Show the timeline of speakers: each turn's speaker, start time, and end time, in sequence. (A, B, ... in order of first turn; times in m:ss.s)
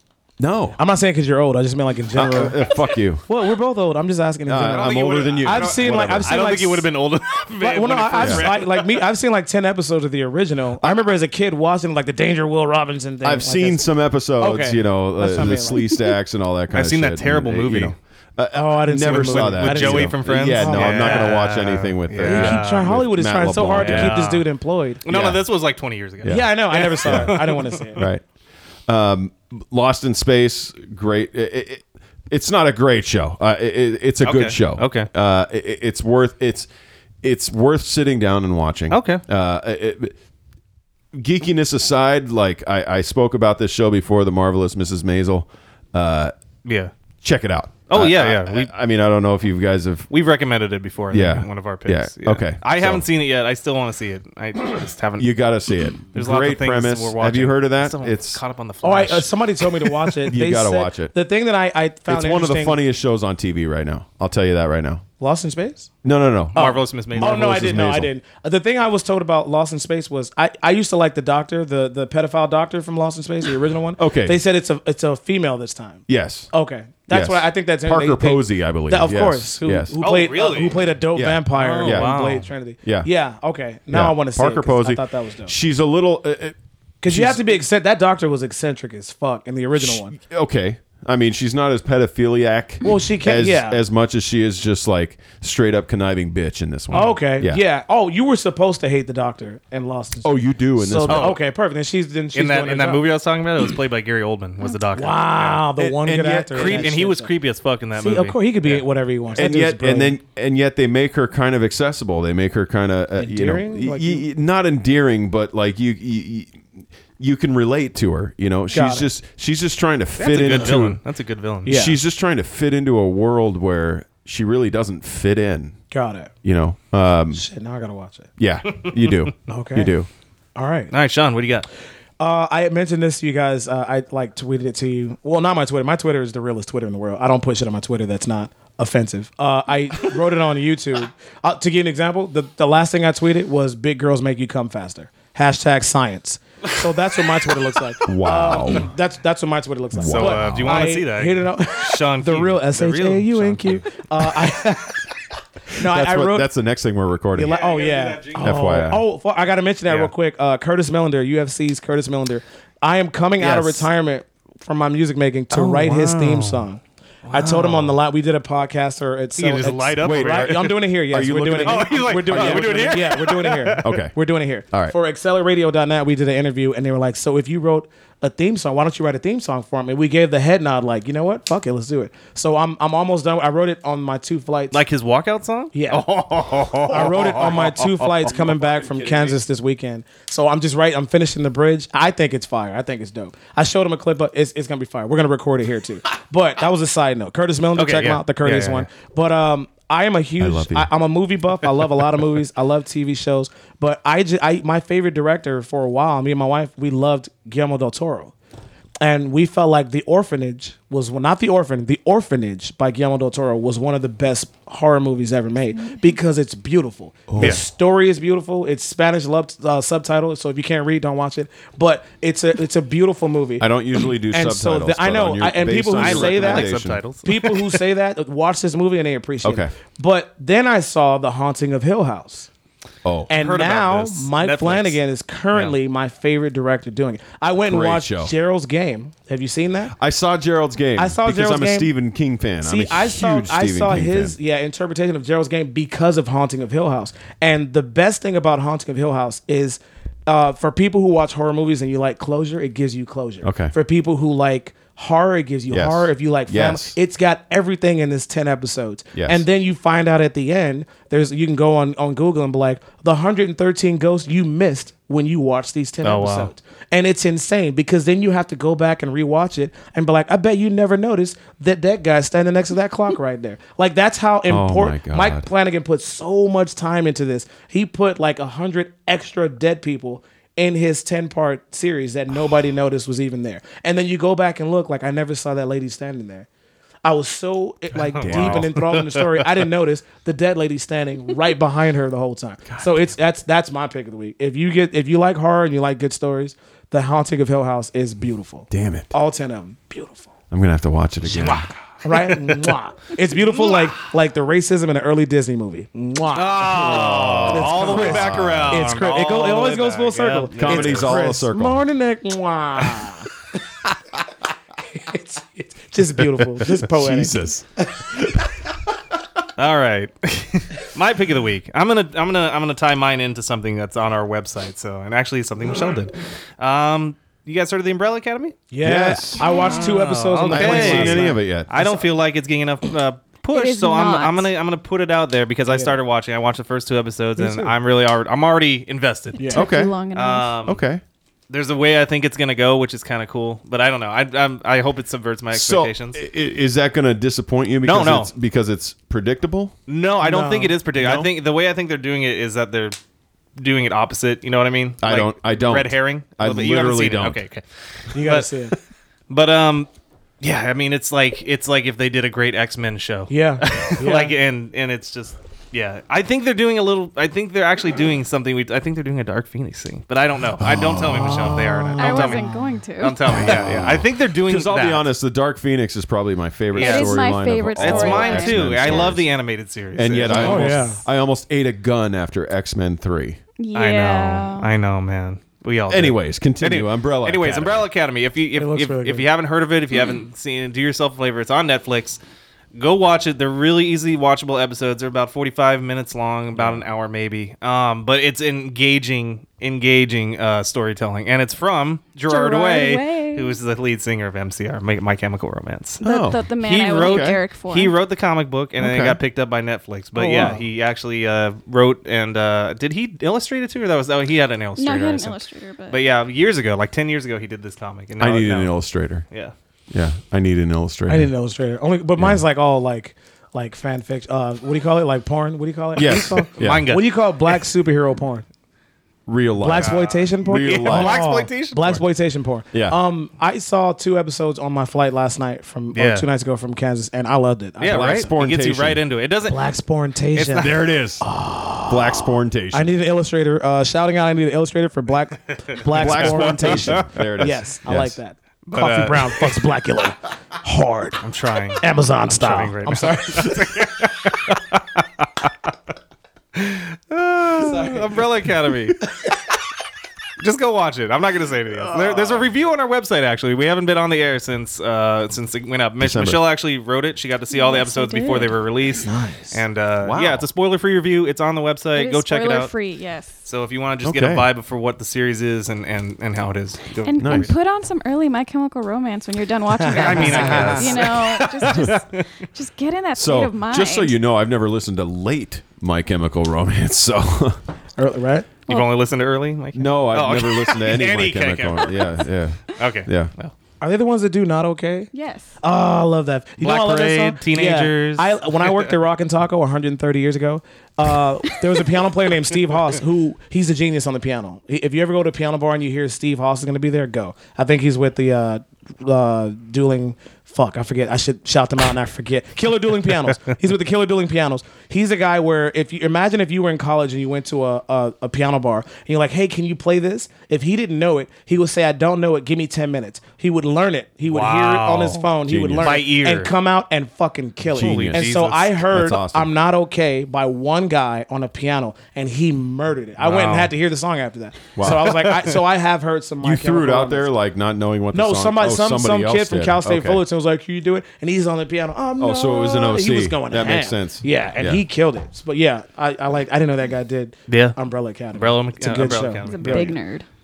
0:00.4-0:00.8 A
0:00.8-0:06.9 B
0:02.1-0:03.2 A
0:04.4-0:06.4 A
0:04.7-0:09.0 C
0:07.6-0:13.8 B
0:08.2-0:08.4 A
0:10.8-0:11.0 A
0:13.2-0:24.2 A
0:14.4-0:16.0 B
0:16.7-0:18.0 C
0:18.5-0:21.3 B
0:19.0-0:22.9 C
0:22.2-0:25.0 B
0:23.5-0:24.5 C
0:25.0-0:28.0 C
0:25.1-0:25.4 A
0:26.2-0:26.5 A
0:26.3-0:28.0 B
0:27.0-0:27.3 A
0:28.0-0:28.2 A
0:28.9-0:36.7 A
0:34.2-0:35.1 C
0:37.2-0:40.1 A
0:38.9-0:39.2 C
0:41.1-0:46.3 A
0:46.6-0:46.9 C
0:47.2-0:50.1 A
0:47.9-0:48.7 C
0:50.1-0:55.3 C
0:51.1-0:53.1 A
0:55.2-0:58.4 A
0:56.1-1:00.2 C
0:58.8-1:02.8 B
1:00.3-1:01.1 A
1:02.1-1:05.0 A
1:05.2-1:05.9 B
1:06.0-1:08.1 A
1:06.5-1:07.8 C
1:06.6-1:25.5 B
1:14.0-1:14.4 A
1:16.1-1:16.5 A
1:17.1-1:20.0 A
1:20.0-1:20.8 C
1:21.1-1:22.1 A
1:21.5-1:22.5 C
1:23.9-1:27.5 A
1:27.0-1:30.1 B
1:29.8-1:37.6 A
1:32.8-1:33.8 B
1:36.9-1:37.2 C
1:36.9-1:43.0 B
1:40.2-1:41.3 A
1:41.1-1:41.4 C
1:42.3-1:45.6 C
1:44.9-1:47.3 B
1:45.8-1:46.9 A
1:46.5-1:48.8 C
1:48.0-1:50.1 B
1:49.4-2:01.0 A
1:53.2-1:54.2 B
1:58.7-1:59.1 B
2:00.2-2:01.7 C
2:01.6-2:05.8 A
2:01.6-2:02.0 B
2:05.9-2:06.3 B
2:06.4-2:07.4 A
2:07.3-2:08.3 B
2:08.4-2:10.1 A
2:09.5-2:09.9 B
2:10.5-2:10.9 B
2:10.9-2:11.6 C
2:12.2-2:35.0 B
2:28.0-2:28.9 A
2:29.9-2:30.9 A
2:30.0-2:33.9 C
2:35.7-2:36.5 B
2:35.8-2:37.6 A
2:37.3-3:04.8 B
2:37.4-2:38.7 C
2:38.4-2:39.0 A
2:39.9-2:40.1 C
2:43.4-2:43.9 A
2:45.5-2:46.6 C
2:47.2-2:48.0 C
2:49.4-2:50.6 C
2:50.0-2:53.1 A
2:51.6-2:54.0 C
2:53.8-2:54.1 A
3:04.7-3:08.1 C
3:05.7-3:06.1 B
3:06.9-3:28.3 B
3:07.2-3:07.6 A
3:08.2-3:09.4 A
3:17.8-3:18.9 C
3:20.4-3:20.9 A
3:29.0-3:43.7 B
3:37.3-3:37.6 A
3:43.6-3:47.0 A
3:44.3-3:46.7 B
3:45.9-3:47.8 C
3:47.2-3:52.5 B
3:49.4-3:49.7 A
3:53.0-3:53.3 A
3:53.3-3:59.9 B
3:53.3-3:55.0 C
3:57.6-3:58.3 A
4:00.0-4:04.4 A
4:01.0-4:01.9 B
4:02.6-4:46.5 B
4:13.4-4:13.7 A
4:15.7-4:17.0 A
4:19.1-4:19.4 A
4:26.0-4:26.5 C
4:34.5-4:35.5 A
4:47.0-5:00.3 B
4:48.0-4:49.3 C
4:48.1-4:48.8 A
4:58.7-4:59.1 A
5:00.5-5:01.7 A
5:01.4-5:02.7 C
5:01.4-5:13.3 B
5:03.4-5:04.0 C
5:06.3-5:11.2 C
5:06.8-5:08.9 A
5:10.6-5:11.8 A
5:14.9-5:17.9 B
5:16.6-5:18.5 A
5:19.6-5:28.6 C
5:28.7-5:32.1 B
5:28.8-5:29.6 A
5:29.5-5:39.5 C
5:30.4-5:31.7 A
5:33.5-5:34.5 D
5:35.7-5:36.0 B
5:37.4-5:37.7 B
5:39.4-5:39.7 B
5:39.4-5:40.5 D
5:39.5-5:39.9 A
5:40.1-5:40.8 C
5:40.6-5:41.0 A
5:41.5-5:46.2 C
5:45.5-5:49.7 A
5:47.8-5:48.3 C
5:49.9-5:53.0 C
5:50.2-5:50.8 B
5:51.0-5:51.3 A
5:53.6-5:58.5 C
5:55.0-5:57.4 A
5:58.1-5:58.8 B
5:59.3-5:59.9 C
6:00.4-6:12.5 C
6:03.3-6:04.3 B
6:10.6-6:11.6 A
6:11.1-6:12.6 B
6:12.0-6:13.3 D
6:13.0-6:15.1 C
6:13.3-6:19.3 A
6:13.5-6:13.8 B
6:16.7-6:17.1 C
6:16.7-6:19.1 D
6:17.8-6:20.8 C
6:20.0-6:23.4 A
6:20.3-6:21.0 B
6:23.6-6:24.7 D
6:23.7-6:32.2 C
6:25.9-6:27.9 A
6:28.6-6:29.3 B
6:32.7-6:46.0 C
6:42.3-6:43.6 D
6:46.0-6:47.4 A
6:46.0-6:48.0 D
6:46.6-6:59.5 C
6:48.8-6:49.2 A
6:50.1-6:50.6 B
6:54.8-6:56.0 D
6:58.2-6:59.2 A
6:59.9-7:01.3 A
7:01.1-7:08.4 B
7:02.2-7:02.4 A
7:05.9-7:06.8 A
7:06.0-7:07.1 C
7:09.2-7:11.2 A
7:09.6-7:18.3 B
7:09.8-7:12.0 C
7:12.7-7:13.0 A
7:15.9-7:16.3 C
7:17.8-7:19.7 C
7:17.8-7:19.0 A
7:19.4-7:31.2 B
7:20.3-7:20.7 C
7:20.6-7:21.2 A
7:21.9-7:22.9 A
7:25.9-7:28.2 A
7:26.0-7:27.0 C
7:28.6-7:29.5 C
7:31.2-7:35.5 C
7:31.8-7:34.1 B
7:36.6-7:39.0 C
7:37.5-7:38.2 B
7:40.4-7:52.7 C
7:41.9-7:42.5 A
7:46.0-7:46.4 A
7:47.5-7:48.5 D
7:49.0-7:49.6 B
7:50.0-7:50.4 A
7:51.9-7:53.4 D
7:53.4-7:57.5 C
7:54.0-7:54.5 A
7:57.0-8:04.1 D
7:57.2-7:57.5 A
7:59.7-8:01.0 B
8:00.0-8:02.3 C
8:03.1-8:07.6 A
8:08.0-8:08.5 B
8:08.7-8:12.0 C
8:09.7-8:13.3 A
8:12.7-8:13.5 C
8:13.8-8:15.1 B
8:15.1-8:15.5 D
8:15.6-8:57.3 B
8:16.6-8:18.9 C
8:44.3-8:46.5 C
8:45.4-8:46.0 A
8:47.7-8:49.5 A
8:47.8-8:48.9 C
8:53.2-8:53.7 C
8:54.8-8:55.2 A
8:56.4-9:00.2 A
8:58.1-9:09.9 B
9:02.2-9:04.8 A
9:07.5-9:07.8 C
9:08.3-9:09.9 C
9:09.4-9:10.2 D